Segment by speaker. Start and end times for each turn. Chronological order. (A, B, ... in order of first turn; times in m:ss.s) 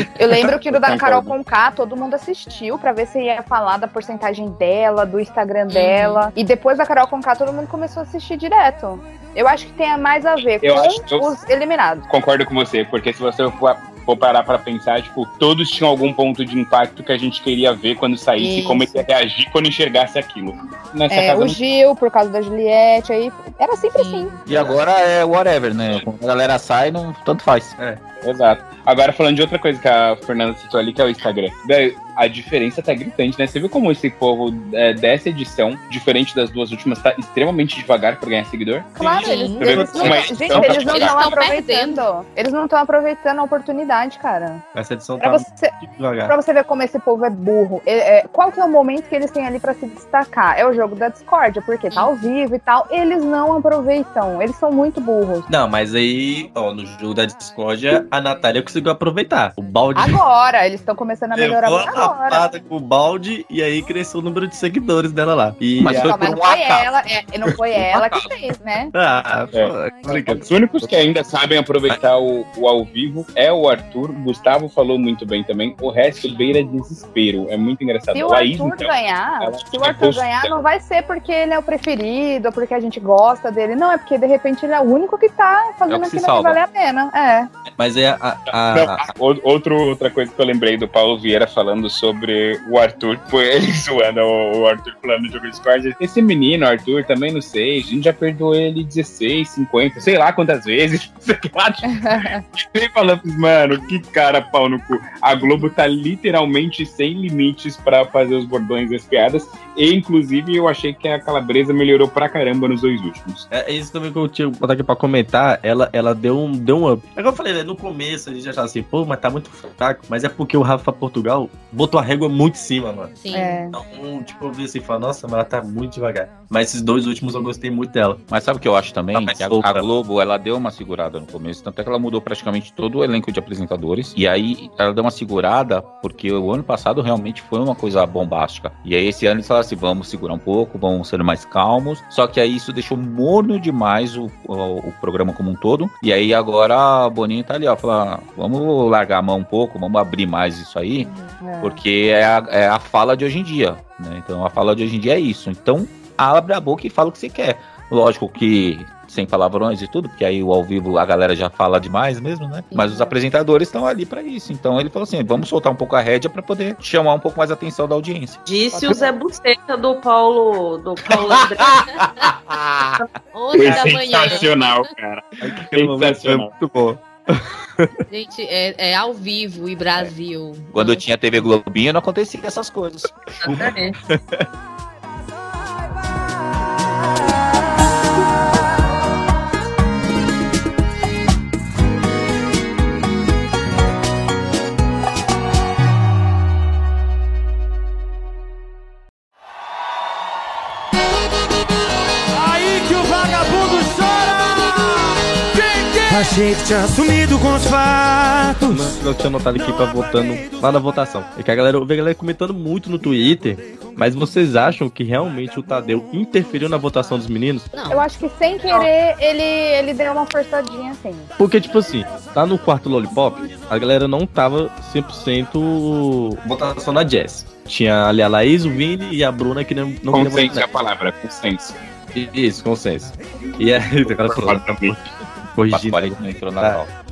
0:00.2-0:12.0 A
0:00.3-0:01.3 B
0:05.7-0:06.2 C
0:10.6-0:11.3 D
0:12.1-0:21.6 D
0:18.4-0:19.0 A
0:21.1-0:24.3 A
0:24.0-0:24.3 C
0:24.4-0:27.7 B
0:28.2-0:38.9 D
0:39.0-0:44.6 A
0:39.0-0:41.0 E
0:39.2-0:39.9 C
0:39.6-0:41.3 D
0:40.6-0:42.0 C
0:44.7-0:46.3 E
0:45.2-0:45.7 A
0:46.2-0:55.5 A
0:55.5-1:00.2 E
0:59.9-1:02.4 A
1:01.3-1:06.3 E
1:05.8-1:06.9 B
1:06.0-1:08.9 A
1:07.9-1:08.3 B
1:08.9-1:10.9 E
1:09.5-1:20.6 D
1:18.1-1:27.5 A
1:25.9-1:26.6 B
1:27.8-1:29.0 E
1:28.7-1:53.4 D
1:41.9-1:42.4 A
1:53.5-2:03.1 E
2:03.2-2:03.6 C
2:03.3-2:03.7 A
2:03.7-2:08.2 E
2:08.3-2:31.1 B
2:09.1-2:09.8 E
2:31.0-2:31.4 C
2:31.4-2:31.8 A
2:31.6-2:48.4 B
2:42.7-2:43.1 C
2:48.4-2:51.8 F
2:48.7-2:49.1 A
2:51.1-2:53.0 B
2:53.3-2:54.8 C
2:53.5-2:56.5 D
2:55.4-2:57.9 E
2:58.1-3:01.0 C
3:00.7-3:03.7 B
3:03.4-3:04.0 F
3:03.5-3:04.5 E
3:22.3-3:24.7 G
3:25.5-3:30.4 G
3:28.7-3:37.7 E
3:37.7-3:38.0 C
3:37.9-3:41.3 A
3:41.4-3:50.6 E
3:50.1-3:51.8 D
3:52.1-3:54.6 E
3:54.0-3:55.1 D
3:55.6-3:56.8 E
3:55.7-3:56.9 B